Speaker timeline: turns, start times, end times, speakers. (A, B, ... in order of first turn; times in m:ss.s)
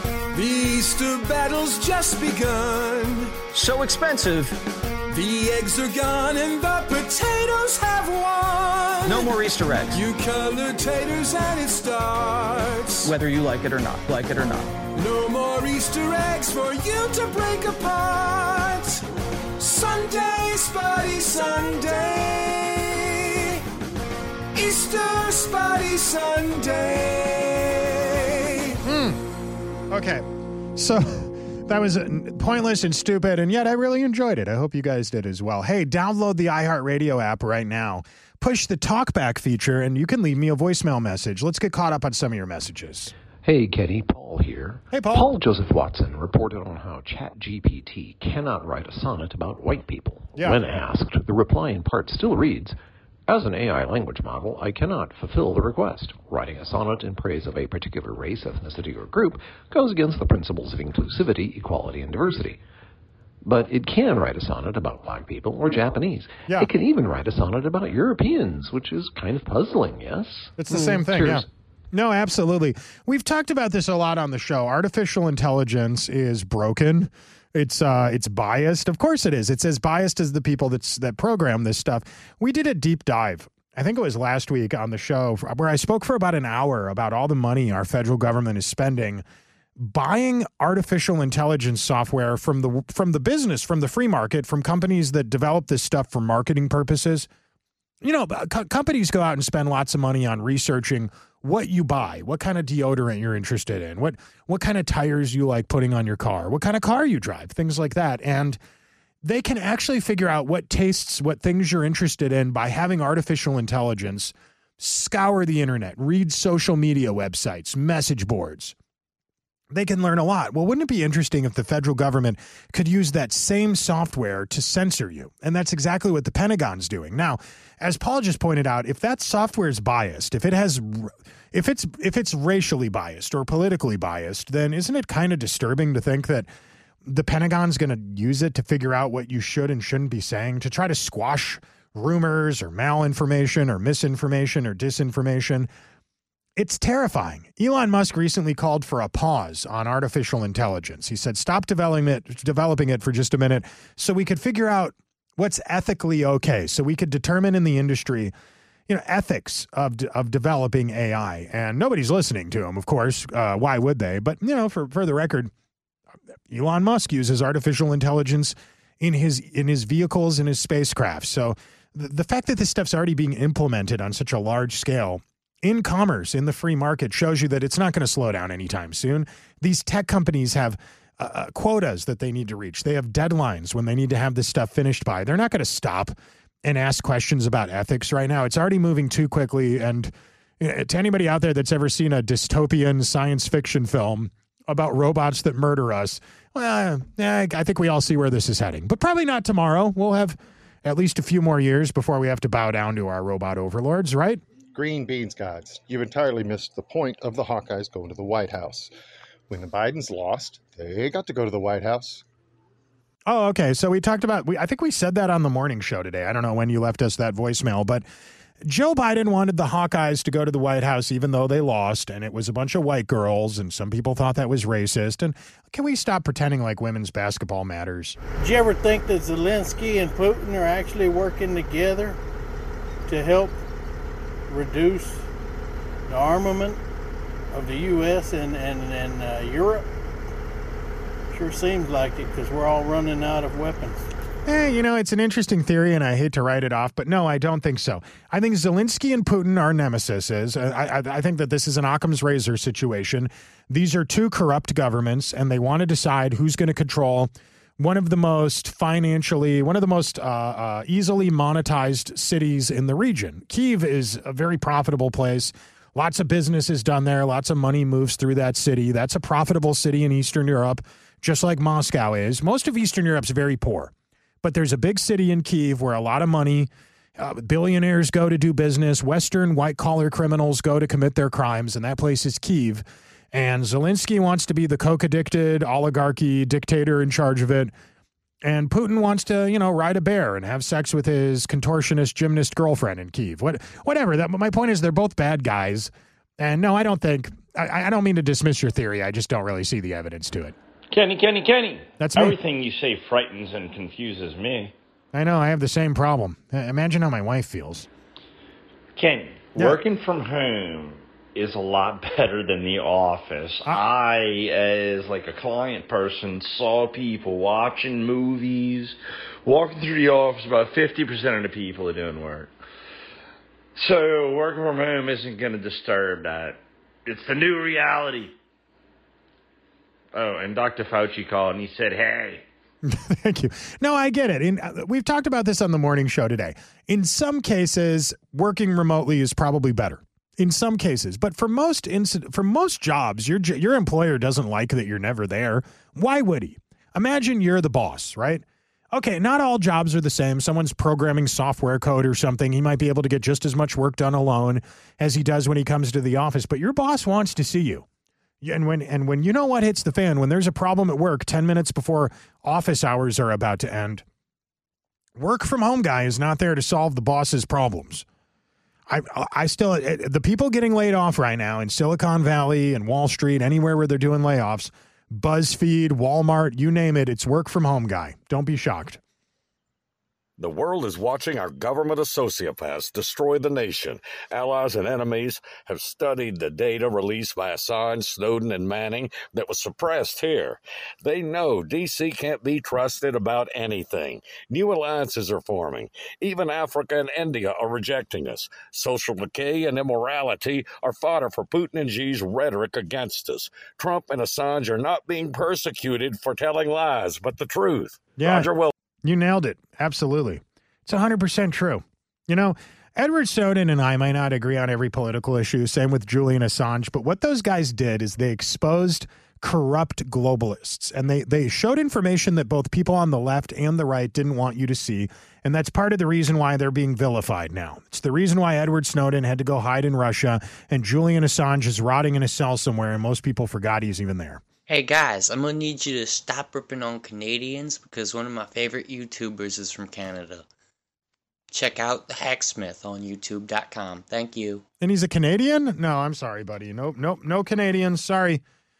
0:00.3-0:03.4 A
0:03.5-0:04.6 B
0:05.1-0:09.4 A
0:09.0-0:10.0 B
0:09.9-0:13.1 A
0:13.0-0:14.8 B
0:15.0-0:19.0 A
0:19.6-0:23.6 A
0:24.5-0:28.8 A
0:28.8-0:29.2 C
0:29.9-0:43.1 C
0:43.4-0:52.8 D
0:44.9-0:45.2 C
0:50.3-0:50.6 C
0:53.3-1:02.6 D
1:03.4-1:11.4 D
1:10.6-1:29.2 C
1:29.8-1:37.3 C
1:38.0-1:48.6 C
1:49.2-1:58.7 C
1:59.7-2:16.5 C
2:17.0-2:25.7 C
2:26.6-2:38.3 C
2:38.9-2:45.5 C
2:46.5-3:24.4 C
3:24.7-3:28.9 E
3:29.5-3:32.2 E
3:33.3-3:38.0 C
3:38.6-3:48.2 C
3:48.4-3:52.2 F
3:53.1-3:53.6 F
3:54.5-3:55.2 F
3:56.1-3:56.8 F
3:57.5-3:59.8 F
4:01.3-4:04.0 F
4:04.4-4:47.7 C
4:48.4-5:00.5 C
5:00.9-5:04.7 G
5:02.0-5:02.4 C
5:05.1-5:07.9 C
5:09.0-5:22.5 G
5:23.8-5:28.3 G
5:30.1-5:32.4 G
5:32.8-5:57.8 C
5:58.4-6:04.0 C
6:05.2-6:08.0 C
6:08.9-6:19.0 C
6:20.4-6:48.7 H
6:48.2-6:48.5 C
6:49.0-7:14.4 C
7:14.7-7:20.4 I
7:21.5-7:24.6 I
7:24.8-7:28.4 C